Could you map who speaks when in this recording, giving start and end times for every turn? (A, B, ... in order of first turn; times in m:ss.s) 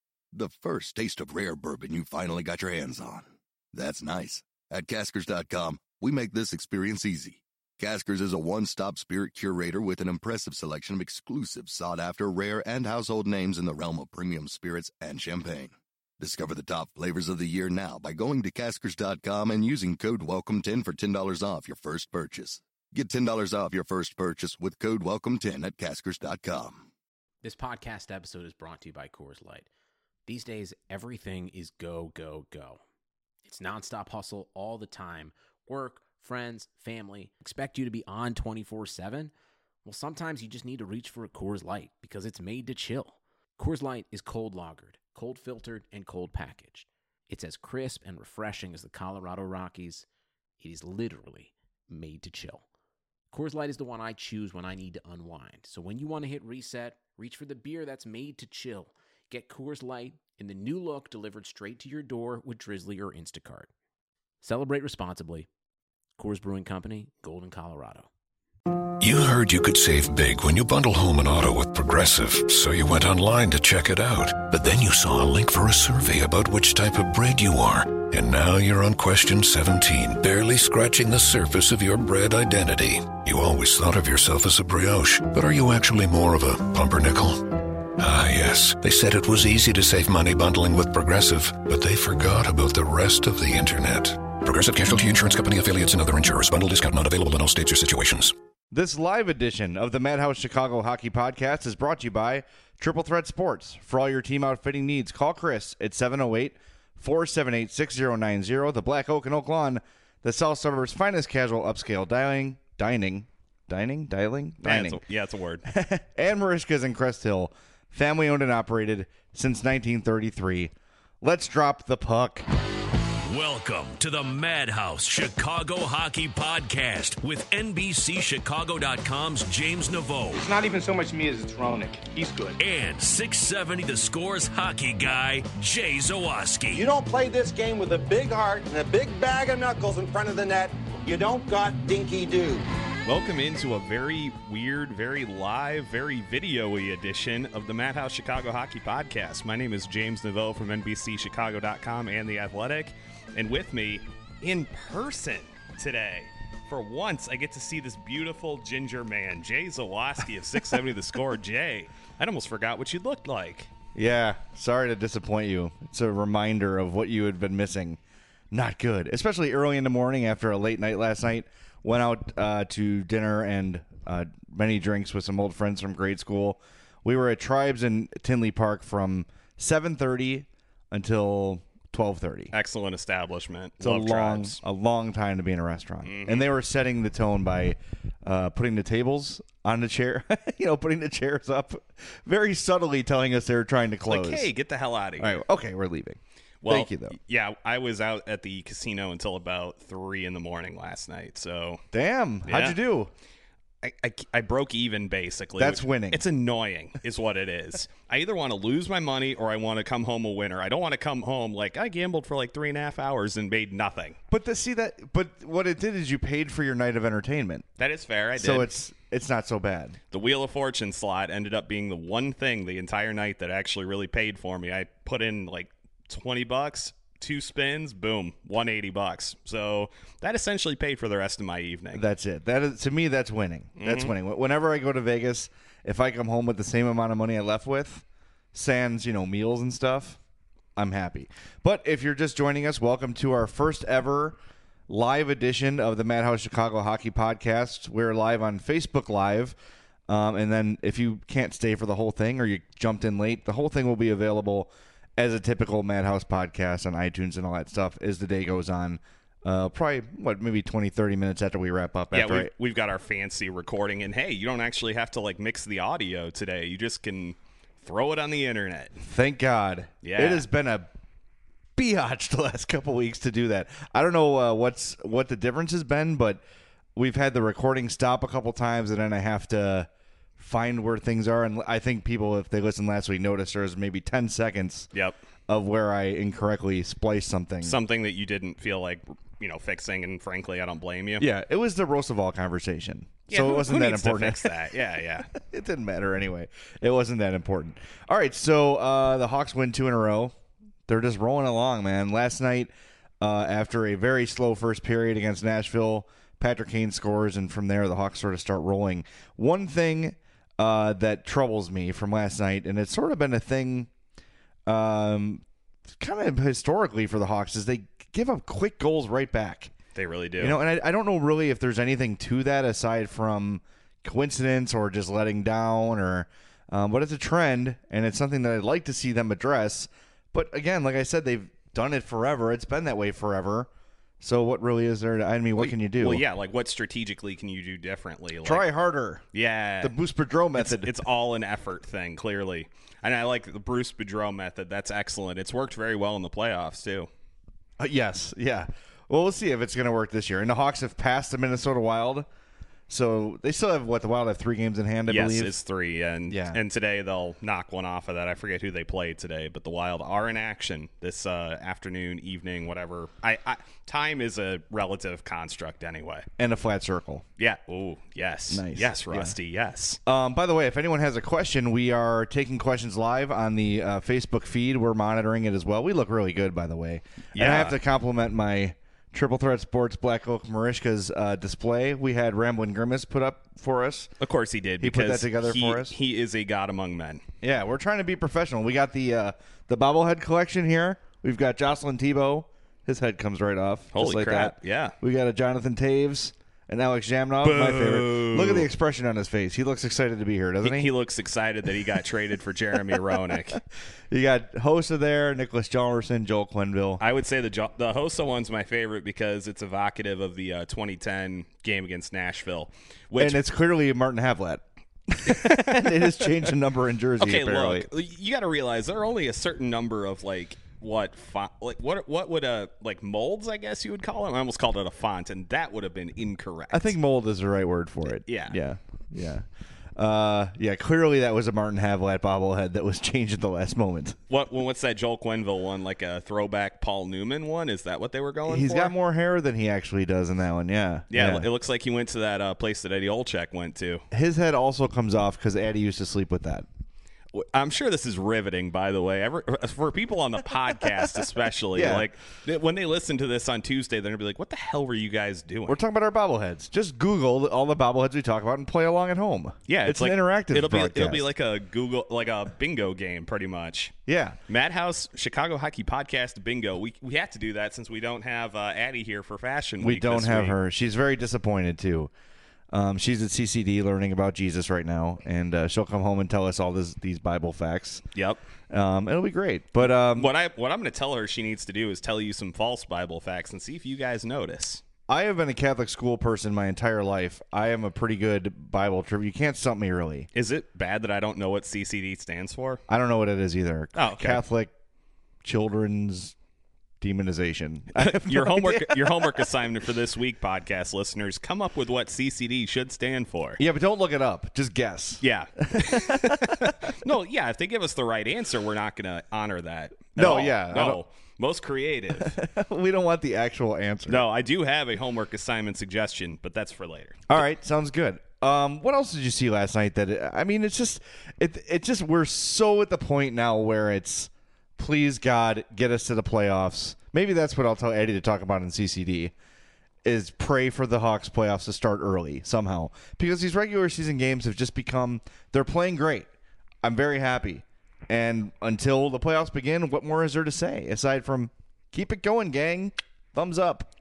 0:00.3-0:26.9 A
0:27.4-0:29.7 B
0:30.3-0:32.8 B
0:33.4-0:39.3 B
0:39.8-0:50.1 B
0:50.6-0:52.6 B
0:53.3-1:03.7 B
1:04.4-1:05.5 B
1:06.2-1:08.1 B
1:09.0-1:38.3 C
1:38.7-1:55.0 D
1:54.6-1:55.6 E
1:55.7-2:02.4 D
2:03.2-2:10.5 F
2:10.3-2:12.6 G
2:12.6-2:16.9 F
2:16.7-2:22.7 H
2:23.0-2:43.7 E
2:44.0-2:48.0 D
2:48.5-3:02.5 D
3:02.5-3:04.6 E
3:03.8-3:14.5 D
3:06.0-3:06.5 E
3:14.1-3:15.4 E
3:15.2-3:17.2 D
3:16.6-3:21.8 E
3:21.9-3:23.1 D
3:22.4-3:22.8 E
3:23.8-3:34.2 E
3:25.6-3:26.2 D
3:34.3-3:37.6 D
3:37.8-3:38.7 E
3:38.4-3:40.0 D
3:40.1-3:52.0 E
3:51.9-4:00.2 D
3:53.8-3:54.1 E
4:00.8-4:04.4 D
4:04.9-4:09.6 D
4:10.1-4:22.5 D
4:22.1-4:29.0 E
4:29.0-4:30.9 D
4:30.0-4:30.5 E
4:31.8-4:36.4 D
4:37.0-4:44.9 D
4:45.5-4:47.8 D
4:47.6-4:51.3 E
4:51.2-4:54.6 D
4:53.3-4:55.3 E
4:55.3-5:00.3 D
5:00.9-5:13.9 D
5:14.7-5:15.4 D
5:16.0-5:19.7 D
5:20.0-5:20.6 E
5:20.4-5:33.7 D
5:34.2-5:36.2 D
5:35.6-5:38.6 E
5:38.4-5:39.2 D
5:39.3-5:40.0 E
5:39.8-5:40.9 D
5:40.6-5:47.1 E
5:47.8-5:52.3 D
5:52.9-5:55.6 D
5:55.1-6:06.3 E
5:56.3-5:56.6 D
6:06.4-6:07.2 D
6:07.4-6:10.0 E
6:08.5-6:09.4 D
6:10.1-6:24.1 D
6:17.3-6:17.8 E
6:24.2-6:27.2 E
6:24.8-6:26.0 D
6:27.4-6:40.9 D
6:33.9-6:35.0 E
6:37.4-6:38.7 E
6:40.6-6:43.6 E
6:44.1-6:47.0 D
6:47.0-6:53.4 E
6:53.2-6:57.9 D
6:55.3-6:56.4 E
6:57.2-7:07.0 E
7:06.7-7:09.4 D
7:08.1-7:08.6 E
7:10.0-7:14.2 D
7:14.3-7:18.9 E
7:18.5-7:21.5 D
7:21.1-7:24.0 E
7:24.1-7:26.7 D
7:27.3-7:35.8 E
7:31.7-7:32.1 D
7:35.7-7:41.3 D
7:39.7-7:43.9 E
7:44.1-7:44.4 D
7:44.5-7:50.6 E
7:49.8-7:52.1 D
7:52.7-7:58.0 D
7:58.2-7:58.4 E
7:58.7-8:00.3 D
8:00.2-8:04.8 E
8:05.1-8:10.3 D
8:10.3-8:12.8 E
8:12.9-8:14.7 D
8:14.0-8:14.4 E
8:15.4-8:16.4 D
8:17.0-8:19.5 D
8:18.0-8:23.6 E
8:23.6-8:26.9 D
8:25.2-8:32.4 E
8:30.2-8:31.0 D
8:32.2-8:34.2 D
8:34.1-8:37.4 E
8:37.3-8:49.3 D
8:50.0-8:56.3 D
8:56.8-9:03.9 D